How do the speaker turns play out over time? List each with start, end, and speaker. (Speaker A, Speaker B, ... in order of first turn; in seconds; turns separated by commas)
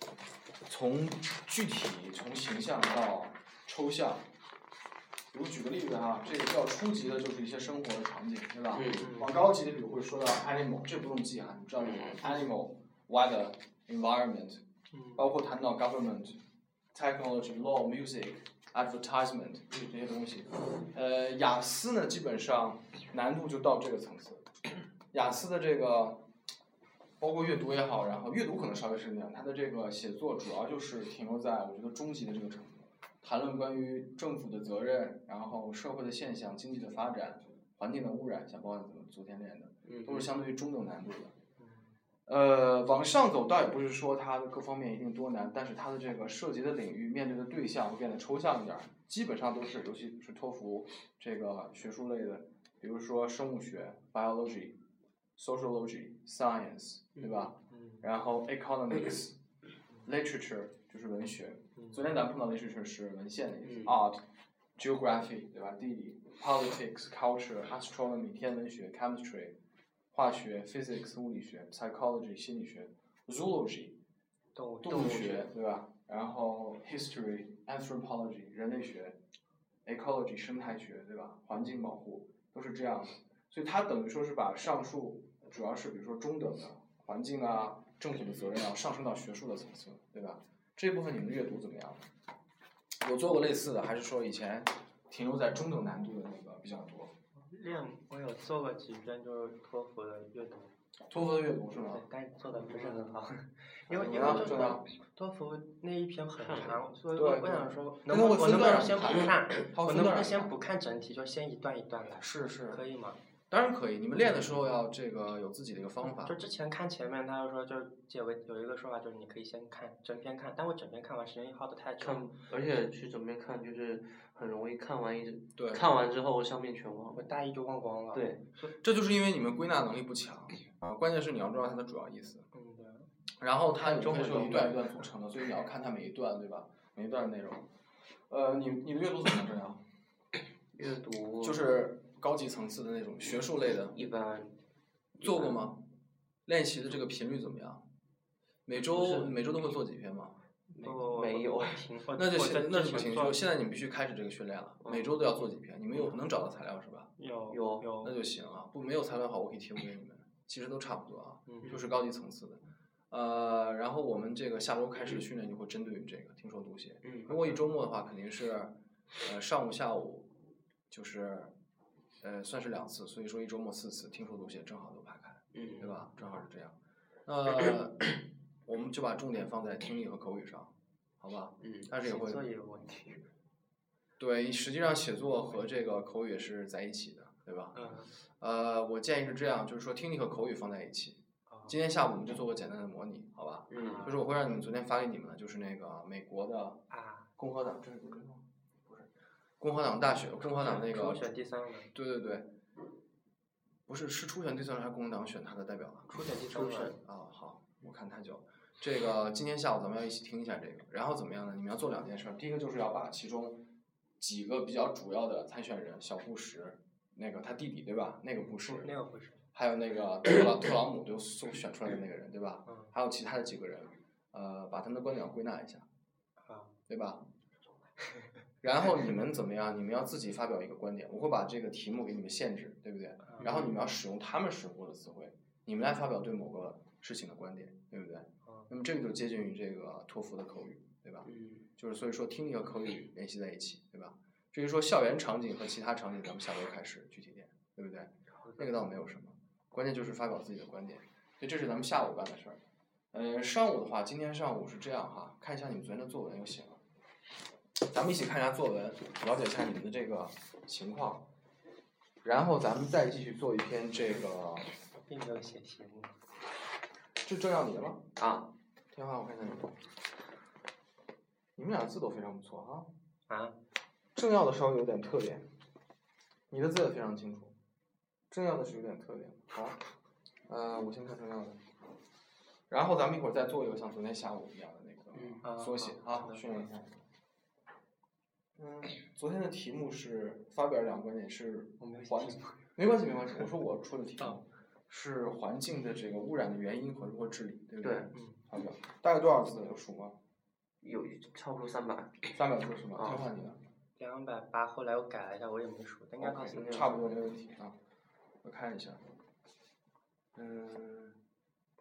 Speaker A: 0.7-4.3, Speaker A: 5.3-14.6, Speaker B: 8.7-9.2, Speaker C: 8.9-9.4, Speaker B: 11.8-12.2, Speaker C: 14.9-15.3, Speaker A: 15.2-16.4, Speaker A: 16.9-24.5, Speaker A: 25.1-26.2, Speaker A: 27.2-41.3, Speaker B: 39.9-40.3, Speaker C: 41.6-41.9, Speaker A: 42.3-54.8, Speaker A: 55.4-59.4, Speaker B: 57.2-57.5, Speaker C: 57.7-58.0, Speaker A: 60.0-64.2, Speaker C: 61.8-62.0, Speaker B: 63.6-64.0, Speaker A: 64.8-69.5, Speaker A: 70.1-74.0, Speaker C: 74.5-75.4, Speaker A: 74.8-79.2, Speaker A: 79.8-92.0, Speaker A: 93.0-97.1, Speaker C: 97.4-100.7, Speaker A: 101.1-102.0, Speaker C: 101.8-113.2, Speaker B: 102.5-103.2, Speaker B: 103.9-104.5, Speaker A: 103.9-104.8, Speaker B: 106.4-106.8, Speaker A: 107.1-110.5, Speaker A: 112.1-112.8, Speaker A: 113.5-116.3, Speaker C: 116.2-122.3, Speaker B: 122.0-127.3, Speaker A: 125.5-125.8, Speaker C: 127.1-128.7, Speaker B: 128.1-128.4, Speaker A: 128.8-132.5, Speaker C: 132.5-133.1, Speaker A: 133.4-137.7, Speaker B: 133.8-134.8, Speaker A: 138.3-139.8, Speaker B: 140.7-141.7, Speaker A: 141.4-143.9, Speaker B: 143.9-144.5, Speaker A: 145.2-145.8, Speaker B: 145.2-145.6, Speaker A: 146.5-147.8, Speaker A: 148.7-150.3, Speaker B: 148.8-149.4, Speaker B: 150.7-151.9, Speaker C: 150.8-153.4, Speaker A: 152.1-157.1, Speaker B: 154.8-155.1, Speaker C: 157.2-158.2, Speaker B: 157.5-157.9, Speaker A: 158.0-170.3, Speaker C: 161.5-161.8, Speaker B: 167.0-167.6, Speaker A: 170.9-171.5, Speaker A: 172.2-178.1, Speaker B: 175.5-176.0, Speaker A: 178.7-182.4, Speaker B: 181.6-181.9, Speaker C: 181.9-183.3, Speaker A: 184.2-196.8, Speaker C: 185.2-185.6, Speaker C: 187.7-188.1, Speaker C: 191.5-191.8, Speaker B: 193.7-194.1, Speaker C: 193.8-194.2, Speaker C: 196.9-197.3, Speaker A: 197.4-199.1, Speaker A: 199.6-201.3, Speaker C: 200.4-201.9, Speaker A: 201.9-202.5, Speaker A: 203.9-213.6, Speaker C: 206.1-206.9, Speaker B: 206.6-206.9, Speaker A: 214.2-218.9, Speaker C: 218.4-219.4, Speaker A: 219.5-225.8, Speaker C: 222.7-222.9, Speaker C: 226.4-226.7, Speaker A: 226.9-227.3, Speaker A: 228.6-252.6, Speaker C: 233.2-233.5, Speaker B: 233.4-233.8, Speaker B: 241.2-241.7, Speaker C: 248.4-248.8, Speaker A: 253.1-256.8, Speaker A: 257.9-261.3, Speaker A: 262.2-264.7, Speaker C: 265.0-266.1, Speaker A: 267.2-268.1, Speaker B: 268.2-268.5, Speaker A: 268.9-269.7, Speaker A: 271.6-272.9, Speaker C: 273.3-273.6, Speaker A: 274.1-275.5, Speaker A: 276.5-277.5, Speaker A: 278.3-279.8, Speaker A: 280.5-281.6, Speaker A: 282.7-287.0, Speaker B: 285.1-285.4, Speaker C: 285.4-286.5, Speaker A: 288.6-300.2, Speaker C: 291.8-292.6, Speaker B: 297.8-298.1, Speaker C: 298.1-298.4, Speaker B: 300.8-302.3, Speaker A: 302.3-303.6, Speaker B: 302.9-303.2, Speaker C: 304.0-306.7, Speaker A: 306.2-307.8, Speaker B: 306.4-307.1, Speaker A: 308.4-309.0, Speaker A: 310.3-311.2